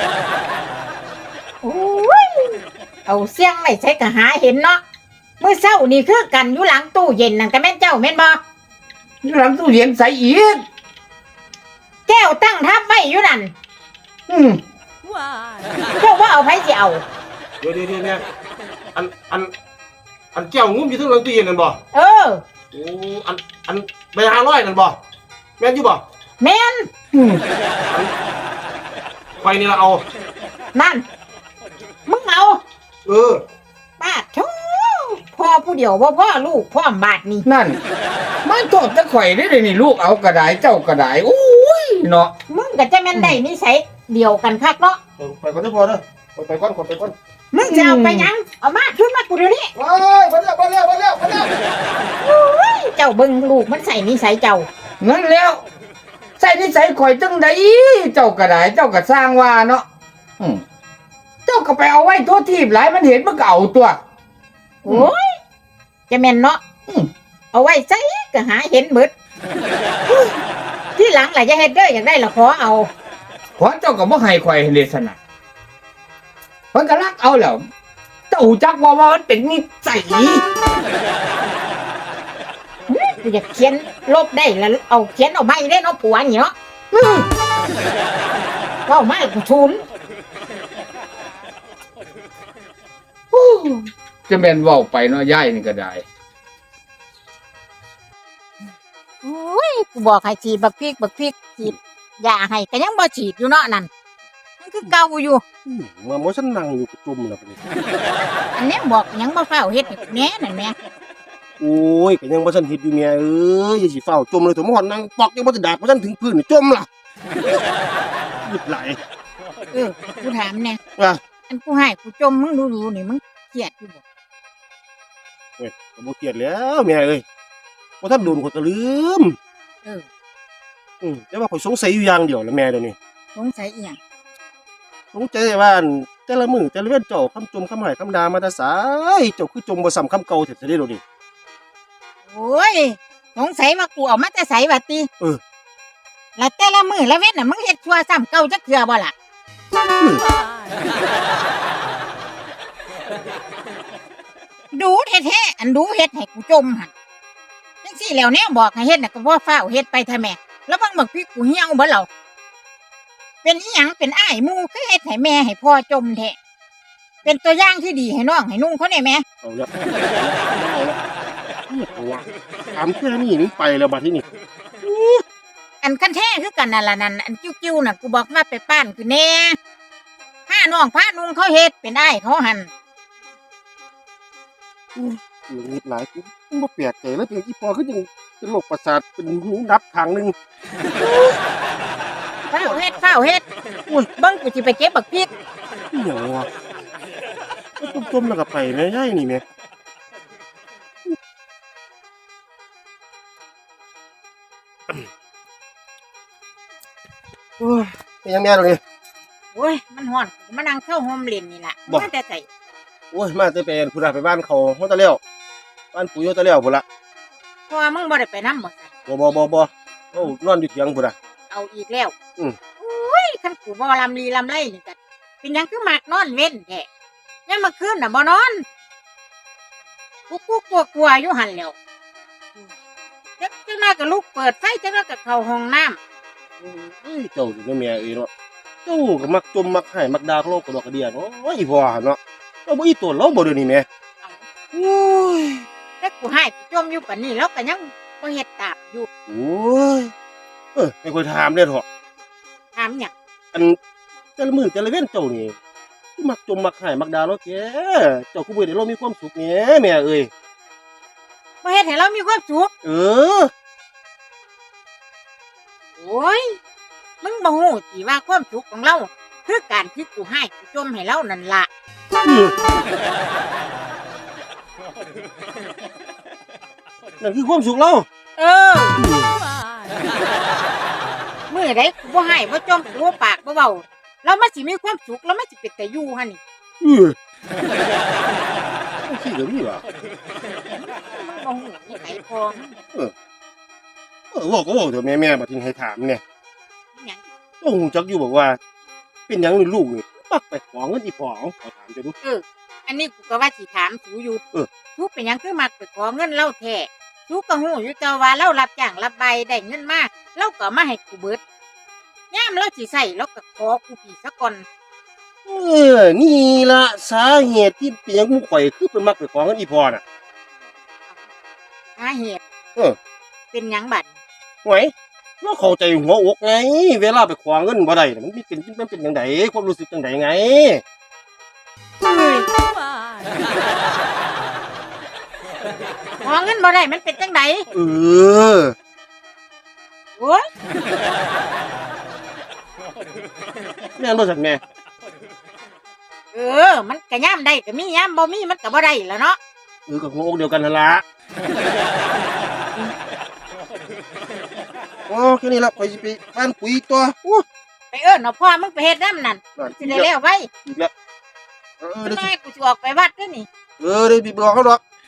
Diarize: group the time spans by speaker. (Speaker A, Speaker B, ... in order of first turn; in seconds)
Speaker A: 1.6-4.8, 5.4-8.4, 12.1-13.5, 16.0-17.0, 21.9-22.4, 26.4-26.9, 30.7-31.1, 32.1-32.6, 34.0-37.5, 42.5-45.0, 47.5-49.7, 52.2-54.7, 64.8-65.3, 66.1-66.6, 67.5-69.1, 71.0-72.9, 82.9-86.5, 88.9-89.8, 99.2-103.9, 104.6-105.4, 108.5-110.8, 119.7-120.8, 121.5-124.0, 133.3-134.0, 142.3-145.1, 146.4-149.1, 154.7-156.9, 157.8-162.1, 163.4-166.4, 167.2-169.2, 175.8-179.6, 180.5-182.7, 192.5-193.4, 194.2-195.3, 209.5-212.5, 217.7-218.9, 221.5-222.1, 222.8-226.9, 227.5-228.6, 230.3-231.8, 233.4-236.0, 246.0-249.1, 252.8-253.1, 261.6-262.7, 266.0-266.6, 267.2-271.7, 278.4-279.0, 281.5-286.4, 290.8-292.8, 297.0-297.2, 302.2-304.4, 305.0-311.4, 312.3-314.6, 322.0-322.4, 323.5-324.1, 332.0-332.5, 336.2-337.7, 340.2-340.4, 346.3-349.4, 357.9-360.5, 362.0-363.5
Speaker B: 9.2-10.6, 14.3-14.6, 27.1-27.4, 37.5-37.8, 38.5-42.3, 47.6-48.3, 55.0-55.6, 56.4-59.9, 61.5-64.0, 64.8-65.1, 73.6-75.2, 76.7-77.6, 78.3-80.4, 86.9-87.3, 93.3-96.0
Speaker C: 17.6-18.2, 18.9-19.5, 20.3-21.8, 22.7-25.0, 25.6-26.0, 29.4-30.0, 33.1-33.4, 45.2-47.1, 49.8-51.5, 105.7-107.6, 111.6-116.9, 118.5-119.0, 125.6-127.2, 128.0-129.4, 131.0-133.0, 135.1-141.0, 169.4-171.0, 171.7-174.3, 174.8-175.2, 184.9-190.3, 191.0-191.3, 195.9-196.5, 197.8-199.4, 207.6-208.8, 213.1-215.2, 215.9-216.8, 219.1-221.1, 236.6-238.3, 238.8-243.9, 244.7-245.7, 249.3-250.1, 250.8-251.8, 254.4-255.6, 256.2-260.3, 262.8-263.5, 272.2-272.6, 277.2-278.1, 279.0-279.3, 286.8-287.2, 289.0-289.8, 294.3-296.2, 297.6-298.6, 299.3-302.1, 315.5-320.0, 324.6-330.8, 337.7-338.7, 344.0-344.6, 349.9-351.0, 355.1-357.4, 359.6-360.1, 360.7-360.9, 361.8-362.3, 363.8-364.8